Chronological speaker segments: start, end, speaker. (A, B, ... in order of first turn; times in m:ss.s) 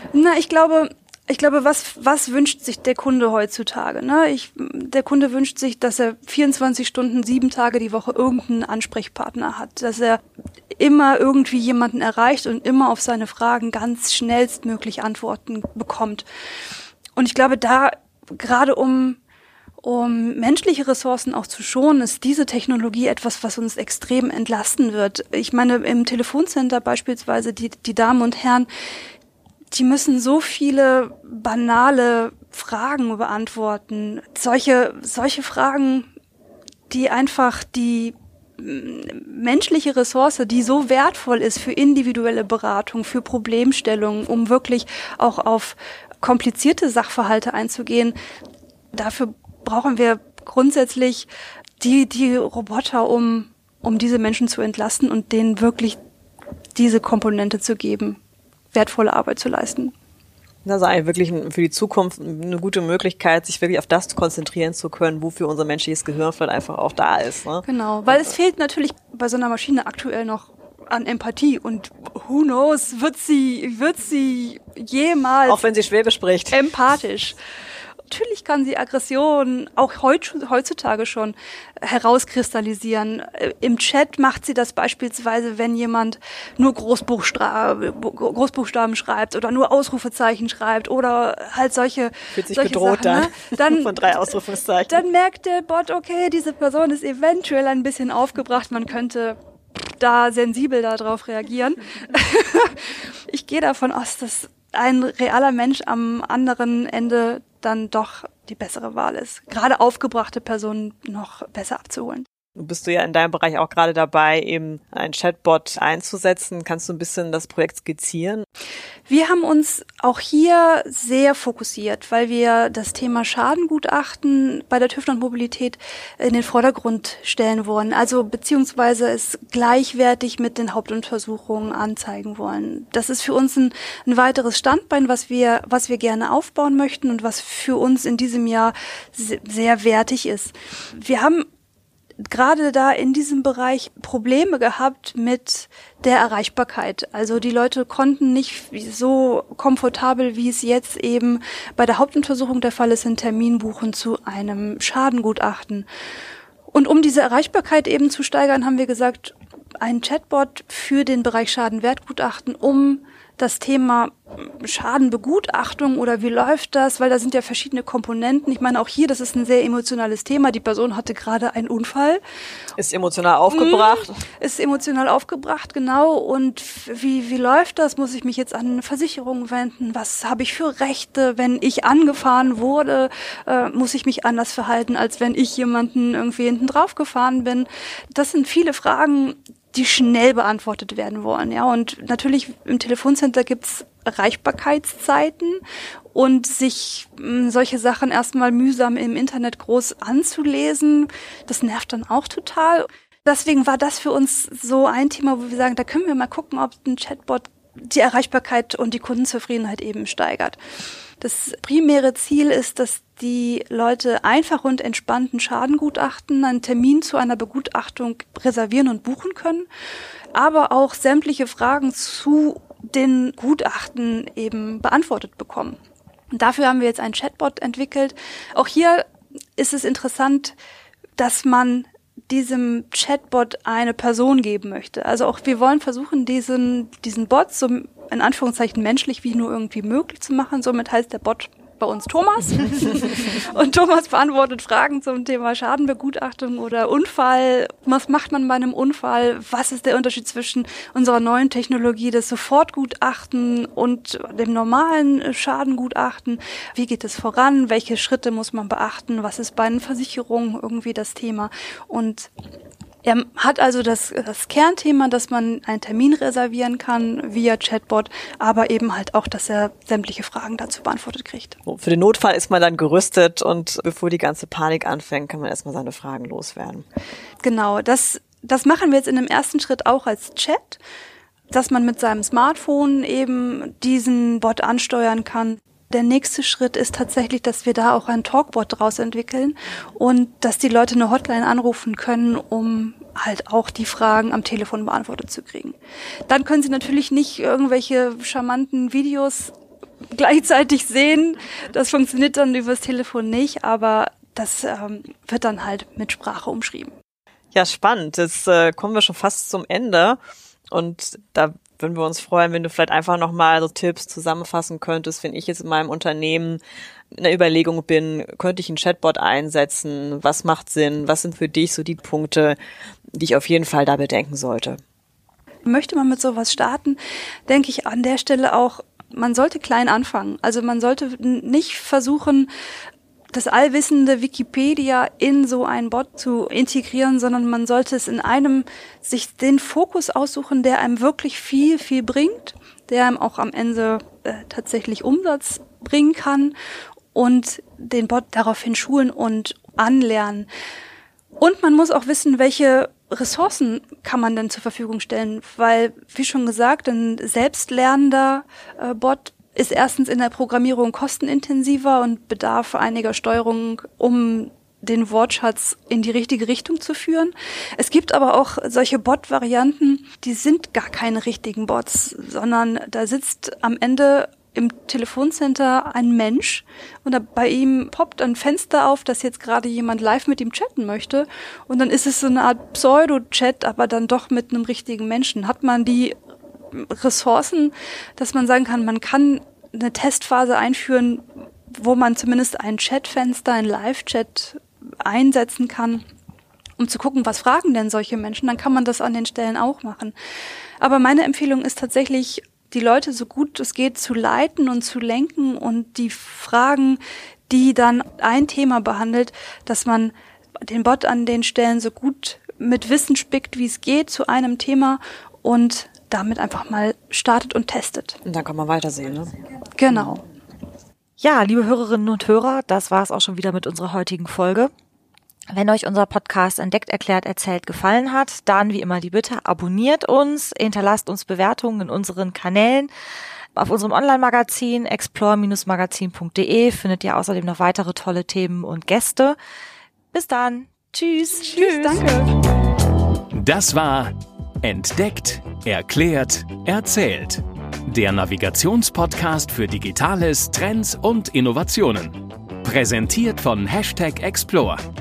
0:00.1-0:10.2 A
0:10.8-0:16.3 A
0:17.2-0:19.2 A
0:19.8-0:28.7 A
0:29.7-0:36.1 A
0:36.9-0:48.1 A
0:48.9-0:51.3 A
0:51.8-0:56.0 A
0:56.7-0:58.2 A
0:58.7-0:59.9 A
1:00.6-1:07.6 B
1:07.6-1:15.6 A
1:15.4-1:16.6 B
1:16.5-1:17.4 A
1:18.1-1:34.0 A
1:32.3-1:35.0 B
1:34.9-1:52.2 A
1:52.6-1:58.4 B
1:59.1-2:21.4 A
2:22.2-2:35.9 A
2:36.7-2:52.2 A
2:52.8-2:54.1 B
2:53.5-3:15.6 A
3:16.1-3:30.6 A
3:31.2-3:39.7 A
3:40.3-3:45.8 A
3:46.3-3:50.6 A
3:51.2-4:22.3 A
4:23.0-4:31.6 A
4:31.6-4:36.8 B
4:37.4-4:40.8 A
4:41.5-4:55.8 A
4:56.3-4:59.5 A
5:00.1-5:06.9 A
5:07.5-5:10.2 B
5:10.7-5:16.6 B
5:17.1-5:22.6 B
5:23.1-5:24.8 B
5:25.6-5:32.5 A
5:33.3-5:46.5 A
5:47.1-5:50.5 A
5:51.4-6:26.2 A
6:26.7-6:36.0 A
6:36.8-6:40.1 A
6:40.8-6:58.2 A
6:58.2-6:59.3 B
6:59.8-7:00.2 A
7:01.2-7:04.7 C
7:05.5-7:12.9 C
7:13.5-7:19.4 C
7:20.1-7:22.0 C
7:21.3-7:22.3 A
7:23.3-7:24.1 D
7:24.6-7:34.8 D